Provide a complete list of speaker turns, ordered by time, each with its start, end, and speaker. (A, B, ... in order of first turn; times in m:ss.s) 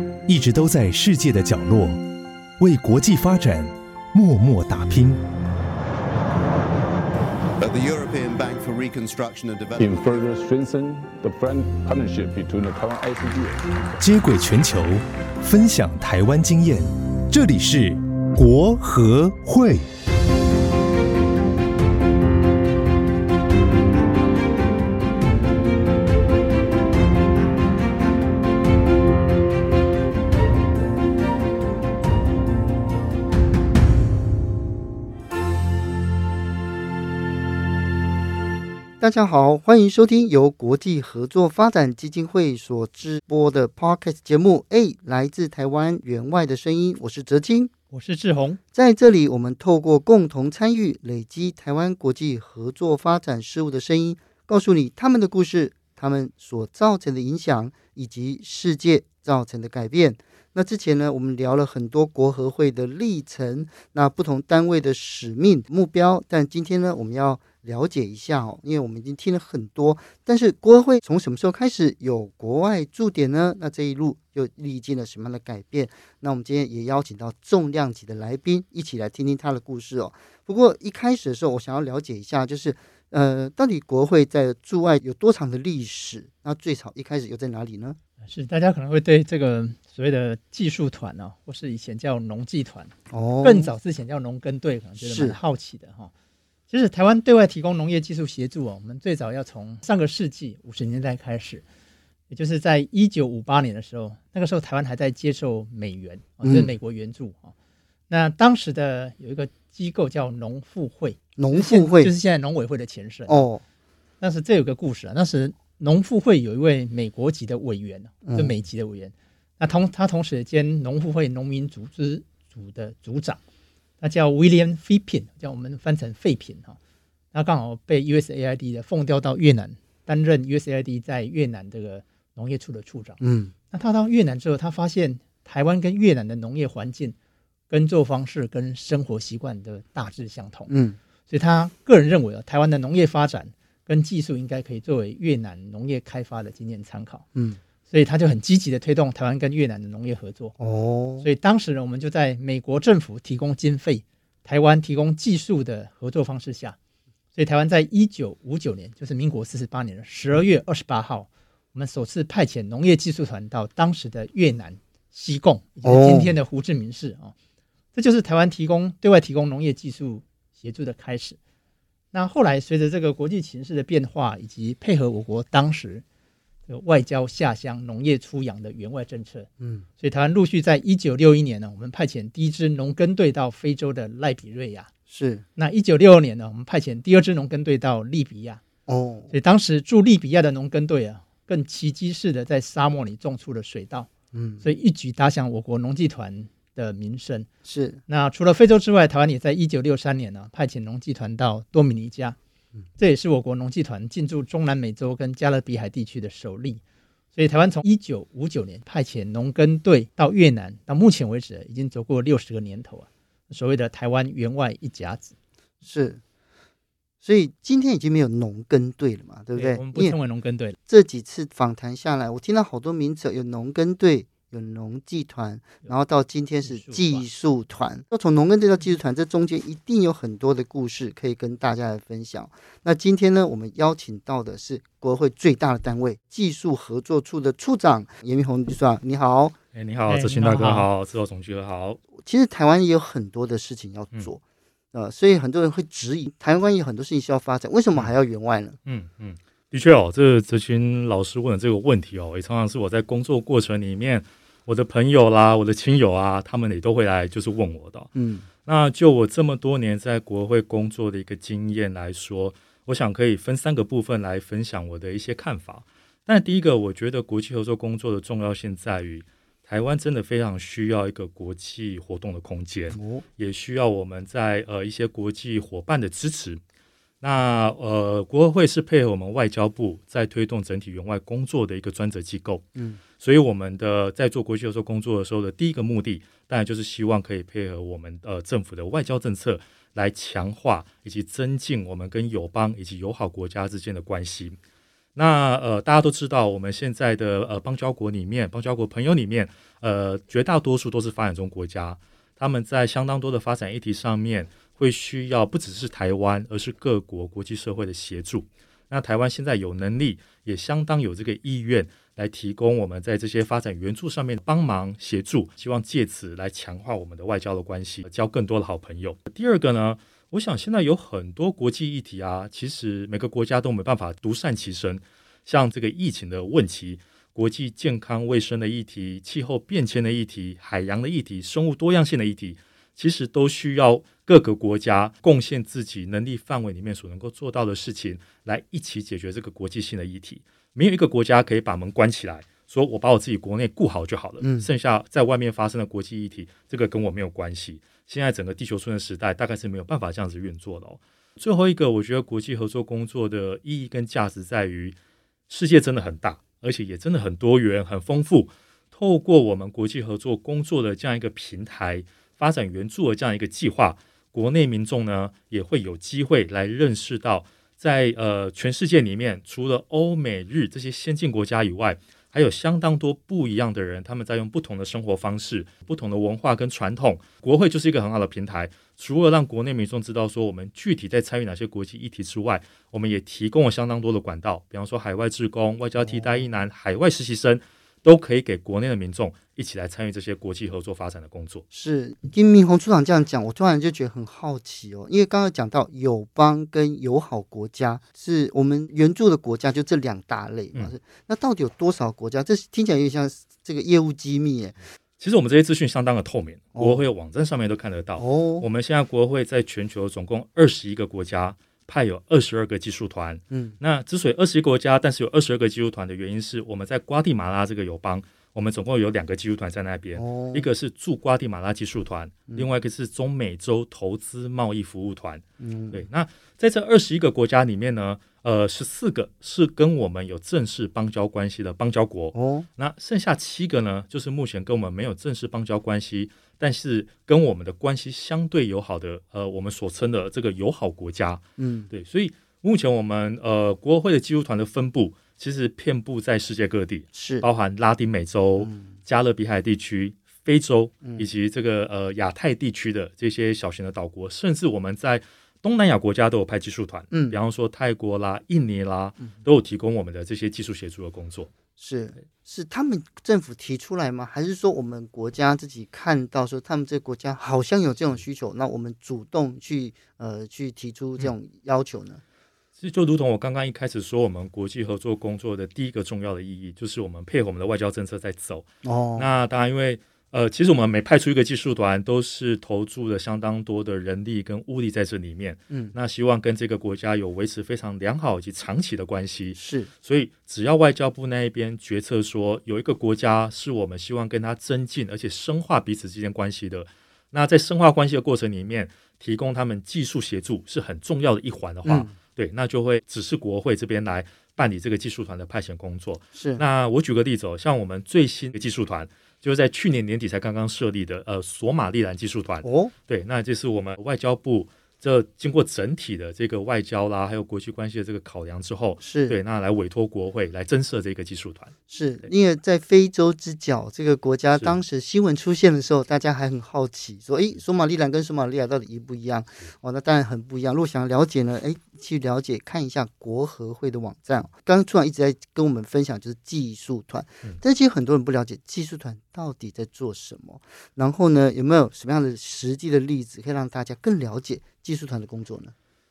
0:00.3-0:02.0 A
0:02.6-0:05.2 A
0:07.6-0:10.2 B
0:09.8-0:14.0 C
0:14.0-0:19.9 A
0:39.0-0:47.7 D
0:47.9-0:48.6 E
0:48.7-1:28.0 D
1:28.2-1:36.1 E
1:33.1-1:33.7 D
1:35.0-1:35.4 D
1:36.7-1:41.6 E
1:42.3-1:47.5 E
1:48.1-1:53.5 E
1:51.4-1:52.1 D
1:53.3-1:53.6 D
1:54.2-2:03.4 E
1:58.2-1:58.5 D
2:04.0-2:06.8 E
2:07.3-2:13.2 E
2:13.2-2:13.5 D
2:13.7-2:17.2 E
2:17.7-2:20.7 E
2:20.7-2:21.0 D
2:21.3-2:27.3 E
2:27.4-2:27.6 D
2:27.9-2:30.5 E
2:30.6-2:31.3 D
2:31.2-2:36.8 E
2:37.4-2:47.3 E
2:45.8-2:46.3 D
2:48.0-2:51.4 E
2:52.1-2:56.0 E
2:56.7-3:04.9 E
2:59.6-2:59.9 D
3:05.1-3:05.4 D
3:05.6-3:08.6 E
3:08.9-3:09.3 D
3:09.3-3:14.1 E
3:14.3-3:14.7 D
3:14.6-3:17.5 E
3:17.7-3:18.0 D
3:18.1-3:22.4 E
3:23.0-3:26.8 E
3:27.4-3:35.4 E
3:35.8-3:36.2 D
3:37.2-3:40.2 D
3:39.6-3:40.8 E
3:40.9-3:59.6 D
3:46.6-3:47.3 E
3:59.7-4:02.0 F
4:00.1-4:00.9 E
4:02.2-4:04.4 D
4:04.9-4:08.8 D
4:08.9-4:18.1 F
4:18.2-4:18.5 D
4:18.6-4:36.6 F
4:33.0-4:33.2 D
4:37.2-4:42.6 F
4:42.8-4:43.0 D
4:43.2-4:54.6 F
4:55.2-5:55.0 F
5:44.4-5:44.7 D
5:55.5-6:31.6 F
6:26.0-6:26.4 D
6:31.7-6:44.8 D
6:45.2-7:41.5 F
6:46.8-6:47.0 D
6:48.2-6:48.7 D
6:53.5-6:53.8 D
7:00.2-7:00.7 D
7:05.6-7:06.0 D
7:12.3-7:12.7 D
7:21.6-7:21.9 D
7:27.1-7:27.5 D
7:37.1-7:37.4 D
7:41.8-7:52.2 D
7:52.8-8:41.7 F
7:58.8-7:59.3 D
8:09.6-8:09.9 D
8:21.8-8:22.1 D
8:26.4-8:26.6 D
8:32.6-8:32.9 D
8:39.0-8:39.4 D
8:41.9-9:05.7 D